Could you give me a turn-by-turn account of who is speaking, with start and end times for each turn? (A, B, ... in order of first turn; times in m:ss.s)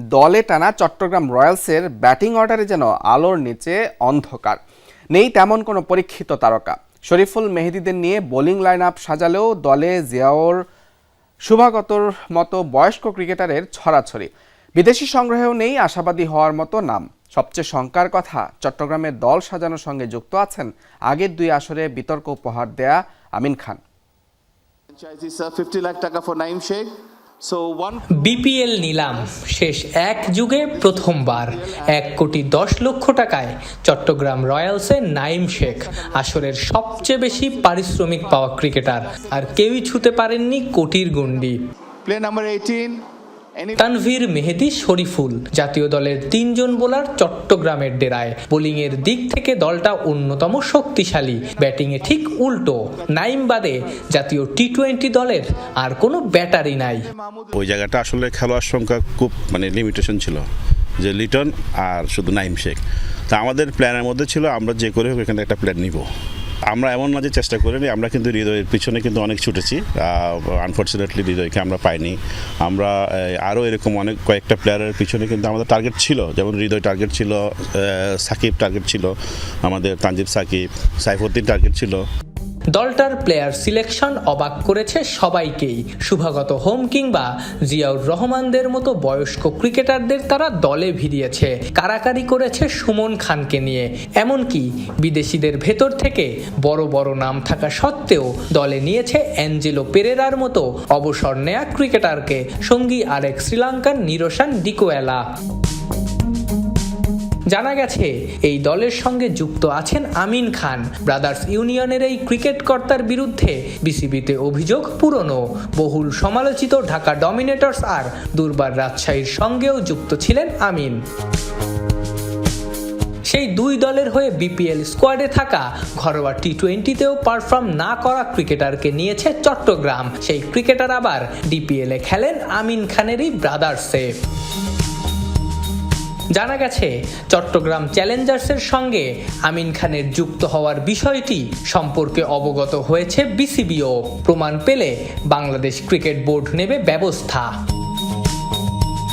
0:00.1-0:04.6 A
0:05.1-0:10.6 A
0:11.5-0:23.8 A
0:24.9-0:28.2 B
0:28.1-0:41.6 C
0:30.8-0:31.4 B
0:42.0-0:43.0 B
0:43.8-0:57.1 C
0:57.1-0:57.5 B
0:57.5-1:00.4 D
1:01.0-1:06.0 D
1:06.7-1:19.1 D
1:19.6-1:22.0 D
1:22.7-1:45.2 C
1:47.5-2:01.0 C
2:03.3-2:14.1 C
2:16.3-2:27.5 C